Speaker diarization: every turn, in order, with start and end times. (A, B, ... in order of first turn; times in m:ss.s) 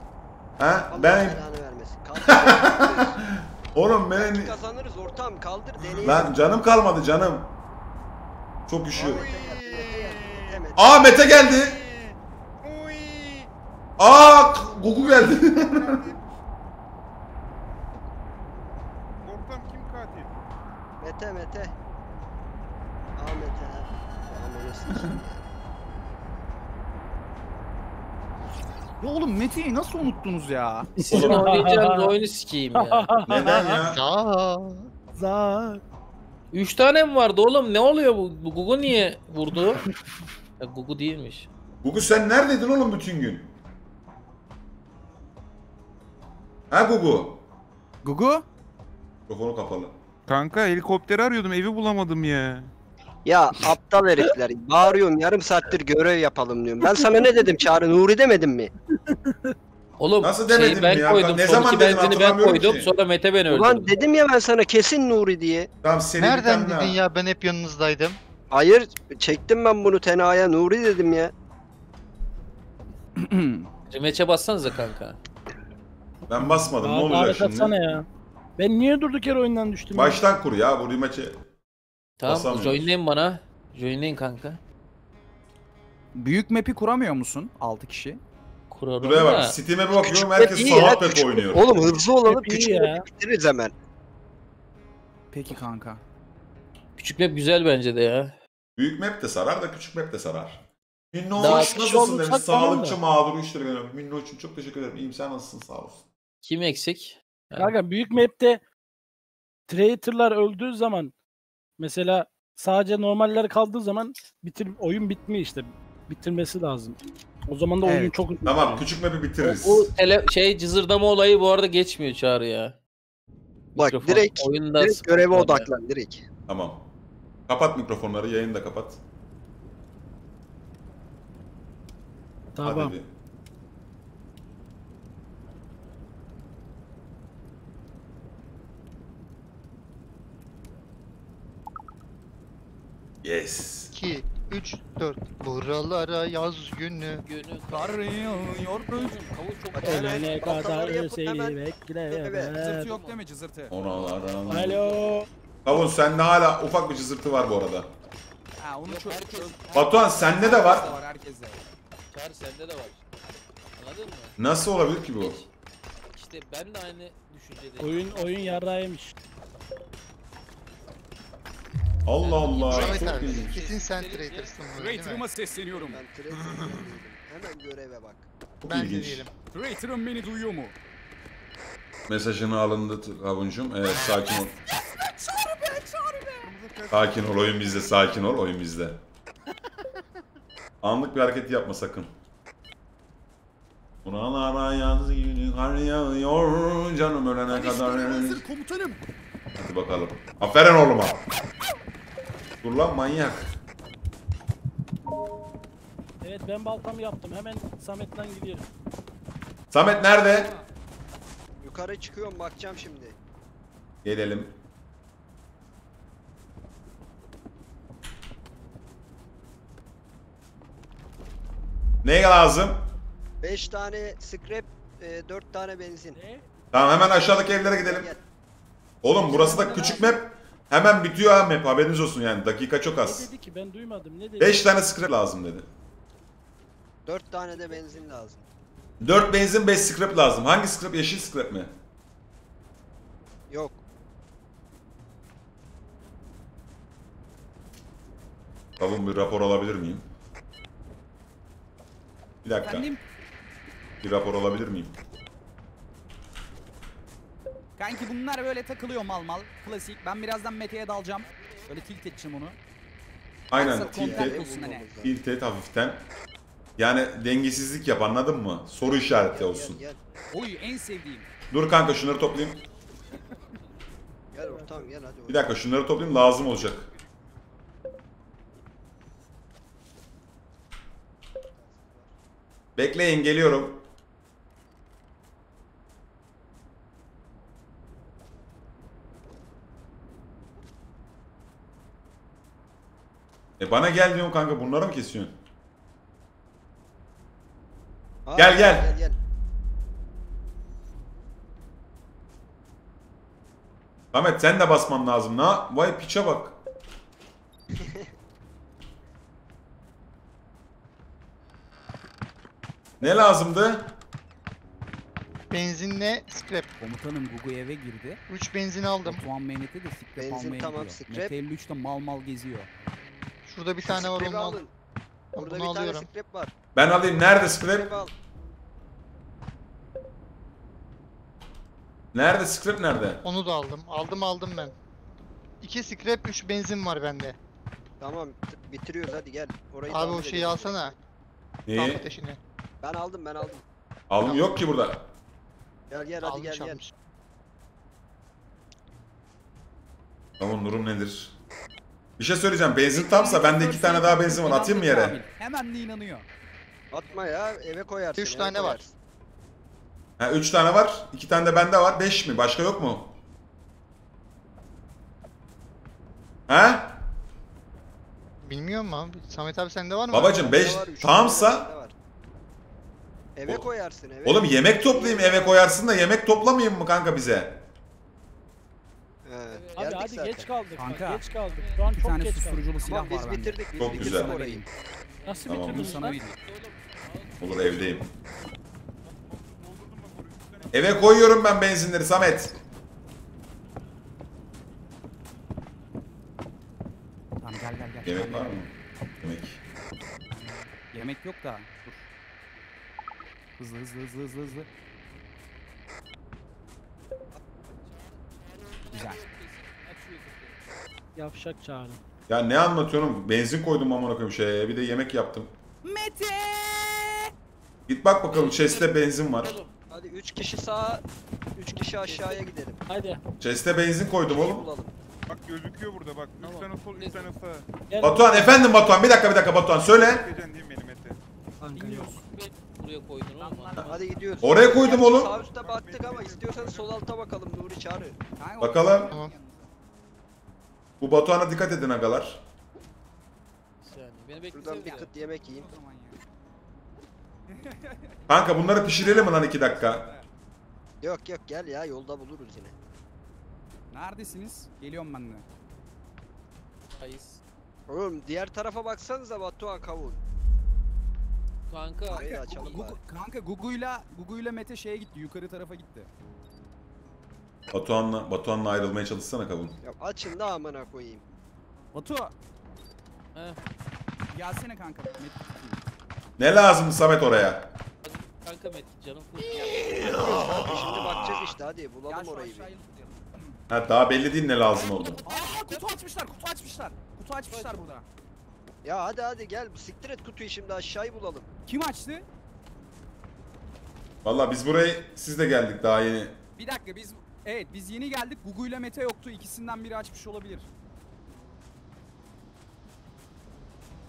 0:00.6-0:01.4 A
0:00.9-0:03.2 B
0:02.3-0:04.5 A
0:04.1-0:06.3 B
0:06.0-0:07.5 A
0:08.7-0:09.2 A
0:08.9-0:10.9 B
0:09.0-0:10.6 C
0:10.8-0:11.8 A
0:11.3-0:13.5 C
0:14.0-0:16.0 A
0:15.1-0:16.3 C
0:19.2-0:20.3 C
0:21.0-0:21.8 B
0:23.2-0:25.5 B
0:29.0-0:30.9 D
0:31.0-0:32.2 E
0:31.0-0:33.1 F
0:32.7-0:33.7 E
0:33.3-0:34.0 A
0:33.8-0:34.9 G
0:35.2-0:35.8 E
0:36.5-0:39.8 F
0:40.6-0:41.5 F
0:41.8-0:43.5 A
0:46.7-0:47.4 A
0:48.0-0:48.4 D
0:49.3-0:49.9 A
0:50.3-0:52.7 C
0:53.2-0:58.7 B
0:59.0-0:59.5 E
1:00.0-1:03.9 F
1:00.2-1:02.9 A
1:03.5-1:05.7 B
1:05.8-1:07.0 A
1:06.2-1:08.2 G
1:08.5-1:11.3 B
1:13.2-1:13.7 D
1:13.9-1:15.2 F
1:16.3-1:17.7 A
1:16.6-1:18.0 E
1:18.6-1:20.2 E
1:19.9-1:21.4 A
1:22.2-1:24.6 F
1:22.2-1:22.9 A
1:26.1-1:28.2 D
1:28.7-1:29.6 F
1:29.0-1:31.9 A
1:29.9-1:33.7 B
1:32.2-1:33.0 E
1:35.3-1:36.0 D
1:37.0-1:38.3 F
1:38.8-1:46.0 A
1:41.4-1:41.8 F
1:41.4-1:43.0 E
1:46.4-1:47.7 F
1:47.5-1:48.6 E
1:49.7-1:51.1 E
1:51.8-1:57.0 E
1:57.5-1:58.8 E
1:57.8-1:58.2 D
1:58.4-1:59.9 A
1:59.4-2:02.8 F
2:03.7-2:05.7 F
2:03.8-2:06.2 B
2:06.5-2:06.9 A
2:07.5-2:09.0 A
2:12.5-2:12.9 E
2:12.6-2:13.1 A
2:23.2-2:23.9 A
2:23.9-2:27.2 G
2:27.2-2:30.9 F
2:27.7-2:29.3 D
2:29.7-2:32.5 B
2:29.8-2:33.0 E
2:32.6-2:33.7 D
2:33.7-2:34.8 A
2:33.8-2:35.0 F
2:34.5-2:35.2 E
2:35.6-2:37.9 A
2:38.6-2:41.6 D
2:38.8-2:39.6 F
2:39.7-2:40.9 A
2:40.7-2:41.0 F
2:42.1-2:43.0 F
2:43.8-2:44.4 F
2:44.4-2:45.4 A
2:45.2-2:45.4 F
2:46.1-2:48.6 F
2:47.8-2:49.1 E
2:52.0-2:53.6 A
2:52.2-2:54.6 F
2:52.7-2:55.2 G
2:53.0-2:53.2 D
2:54.7-2:56.0 D
2:55.8-2:58.3 B
2:58.6-2:59.2 A
2:58.6-2:59.3 G
2:59.5-3:00.7 D
3:02.1-3:04.5 A
3:04.7-3:06.5 D
3:06.4-3:07.9 C
3:06.9-3:09.0 A
3:10.8-3:12.1 A
3:14.0-3:18.4 A
3:17.5-3:19.0 D
3:19.6-3:21.2 A
3:22.6-3:23.5 A
3:26.2-3:28.6 E
3:29.7-3:30.5 A
3:31.6-3:33.2 B
3:34.0-3:34.5 A
3:42.0-3:42.8 A
3:43.4-3:46.2 B
3:46.1-3:46.4 E
3:46.7-3:48.1 A
3:47.4-3:48.2 B
3:49.0-3:53.3 A
3:49.2-3:50.2 D
3:53.0-3:54.6 E
3:54.4-3:55.7 A
3:57.0-3:58.4 B
3:59.0-4:01.7 A
4:03.5-4:03.8 B
4:08.8-4:10.0 A
4:12.4-4:12.9 A
4:12.6-4:13.0 D
4:14.0-4:14.9 A
4:17.8-4:22.6 D
4:23.5-4:24.4 A
4:23.5-4:24.9 D
4:23.6-4:25.1 B
4:25.0-4:26.0 A
4:26.8-4:29.8 A
4:28.8-4:30.0 B
4:30.3-4:31.3 D
4:31.5-4:32.6 A
4:34.3-4:35.5 B
4:35.3-4:36.8 A
4:36.6-4:37.4 C
4:41.5-4:42.1 B
4:42.8-4:43.8 A
4:53.6-4:55.4 A
4:58.2-4:59.2 B
4:58.4-4:58.9 A
5:04.1-5:06.6 A
5:07.8-5:08.1 B
5:13.0-5:13.9 A
5:15.5-5:16.7 G
5:16.8-5:18.2 D
5:18.3-5:19.2 G
5:19.0-5:22.7 D
5:20.2-5:21.3 B
5:23.4-5:24.6 G
5:23.9-5:24.7 B
5:25.3-5:26.1 G
5:25.4-5:26.5 B
5:26.7-5:27.9 A
5:27.7-5:28.1 B
5:32.1-5:33.2 A
5:33.2-5:34.7 G
5:35.6-5:37.4 G
5:38.0-5:40.9 B
5:39.9-5:40.9 G
5:41.6-5:42.0 A
5:41.7-5:42.4 G
5:42.8-5:43.6 B
5:44.1-5:45.1 A
5:45.9-5:46.8 B
5:46.2-5:46.9 G
5:50.4-5:51.3 A
5:52.2-5:55.2 A
5:52.9-5:56.3 D
5:56.9-5:58.9 B
5:58.1-5:58.8 G
6:00.2-6:03.1 A
6:06.5-6:07.0 A
6:08.4-6:10.4 G
6:10.1-6:11.7 A
6:10.3-6:11.9 B
6:13.4-6:15.6 B
6:14.2-6:17.6 A
6:19.2-6:20.5 B
6:19.5-6:20.1 F
6:19.7-6:22.8 E
6:20.8-6:21.2 D
6:21.0-6:21.9 F
6:21.9-6:24.7 D
6:22.8-6:24.6 B
6:23.8-6:24.3 A
6:25.2-6:28.0 F
6:25.2-6:26.2 E
6:25.5-6:25.9 A
6:25.6-6:26.4 D
6:27.4-6:28.1 A
6:29.0-6:31.3 C
6:30.7-6:32.5 A
6:37.4-6:38.6 D
6:38.0-6:39.6 A
6:40.9-6:42.0 D
6:43.6-6:44.7 D
6:47.9-6:50.6 F
6:48.9-6:49.2 D
6:51.1-6:52.0 E
6:52.3-6:55.5 A
6:55.8-6:57.3 D
6:57.9-6:59.6 A
6:58.3-6:59.7 F
6:59.9-7:01.0 B
7:01.6-7:02.8 B
7:01.7-7:02.4 F
7:02.9-7:03.2 E
7:03.4-7:04.7 A
7:04.3-7:04.9 B
7:05.3-7:07.7 C
7:06.4-7:07.3 F
7:07.9-7:08.6 E
7:08.0-7:10.2 A
7:09.9-7:11.2 C
7:11.6-7:12.1 E
7:11.7-7:12.2 D
7:12.3-7:14.0 F
7:13.4-7:14.2 D
7:13.9-7:18.2 B
7:14.4-7:15.3 A
7:15.2-7:17.0 C
7:18.4-7:19.7 D
7:18.6-7:19.1 A
7:21.0-7:22.4 A
7:23.8-7:25.1 F
7:24.5-7:25.7 B
7:25.2-7:26.2 D
7:27.5-7:28.2 D
7:28.3-7:30.1 A
7:28.8-7:30.3 D
7:31.0-7:32.7 B
7:33.9-7:35.4 D
7:37.0-7:37.4 F
7:37.9-7:40.2 B
7:41.7-7:42.4 F
7:42.1-7:43.0 B
7:42.3-7:46.1 D
7:47.7-7:49.7 A
7:49.8-7:51.2 B
7:51.9-7:52.3 D
7:54.3-7:55.8 D
7:56.4-7:57.7 A
7:58.0-8:00.0 F
7:59.5-8:02.7 B
8:02.1-8:03.6 D
8:03.7-8:05.2 A
8:04.9-8:08.0 D
8:05.0-8:05.9 F
8:07.5-8:07.8 F
8:08.8-8:11.5 B
8:11.7-8:12.2 D
8:14.2-8:16.4 A
8:16.6-8:20.7 D